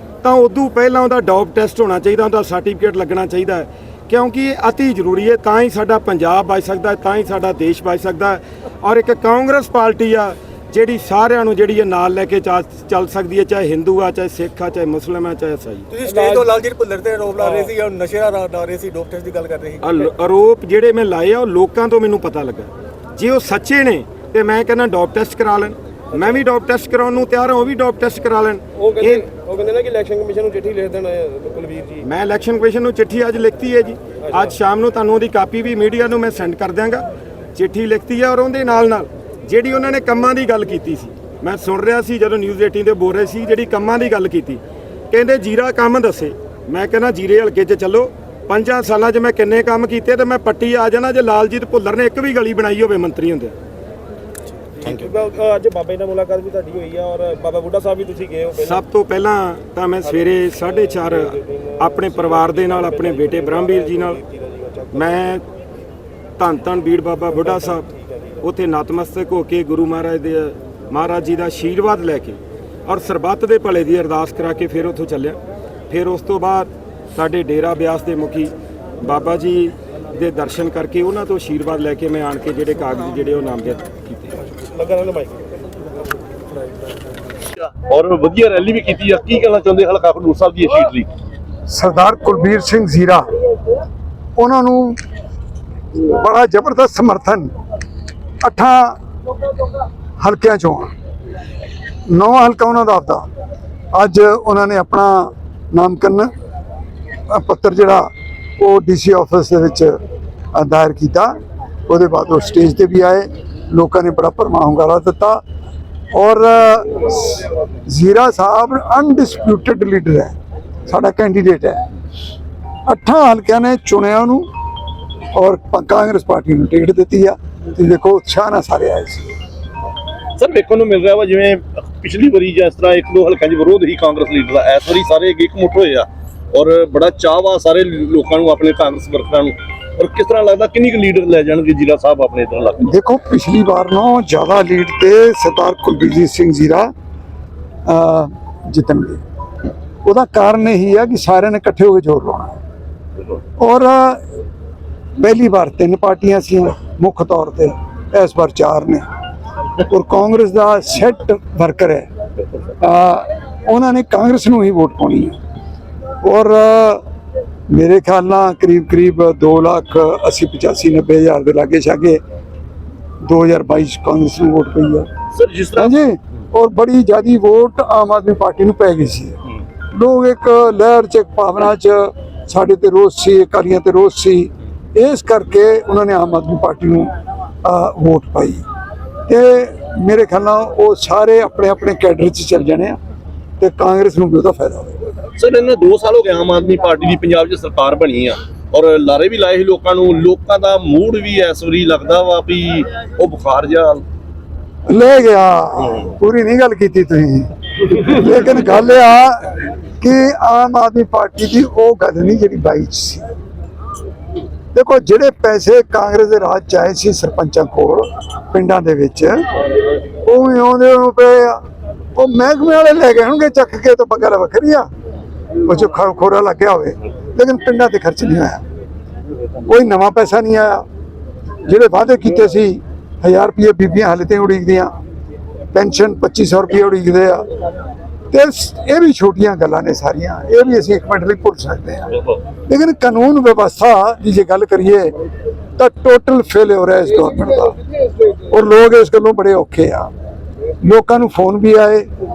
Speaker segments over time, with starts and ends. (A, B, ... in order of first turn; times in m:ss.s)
0:00.2-0:15.9 A
0:15.9-0:19.8 B
0:16.0-0:16.6 C
0:17.4-0:17.7 C
0:19.8-0:29.2 A
0:28.8-0:32.0 C
0:32.0-0:53.6 A
0:54.8-0:58.8 C
0:58.6-1:04.2 A
1:01.0-1:05.2 C
1:04.9-1:05.4 A
1:06.4-1:07.9 A
1:07.5-1:08.2 C
1:08.4-1:15.4 A
1:15.9-1:24.4 A
1:24.7-1:25.8 C
1:27.6-1:31.1 D
1:31.7-1:33.2 E
1:34.4-1:35.0 E
1:36.0-1:37.5 E
1:38.4-1:39.0 E
1:40.2-1:40.9 E
1:42.1-1:43.2 E
1:43.9-1:46.3 E
1:47.3-1:50.0 E
1:50.6-1:51.4 E
1:51.9-1:55.4 E
1:56.1-2:00.4 E
2:00.9-2:01.8 E
2:02.9-2:04.5 E
2:05.3-2:09.3 E
2:10.4-2:22.8 D
2:22.8-2:26.9 E
2:27.9-2:29.2 E
2:30.0-2:32.6 E
2:33.6-2:34.2 E
2:35.2-2:39.1 E
2:39.9-2:42.1 E
2:42.8-2:45.4 E
2:46.2-2:47.0 E
2:47.7-2:52.2 E
2:53.2-2:55.1 E
2:55.3-2:55.9 D
2:55.8-2:59.4 E
2:59.9-3:07.1 E
3:07.6-3:08.6 E
3:09.3-3:13.0 E
3:13.6-3:15.1 E
3:15.4-3:24.0 D
3:24.9-3:33.2 E
3:34.7-3:39.5 E
3:40.2-3:41.6 E
3:42.2-3:44.9 E
3:45.6-3:48.6 E
3:49.6-3:50.8 E
3:51.7-3:54.9 E
3:55.7-3:57.5 E
3:58.3-4:05.1 E
4:05.8-4:07.8 E
4:08.5-4:10.1 E
4:10.8-4:12.1 E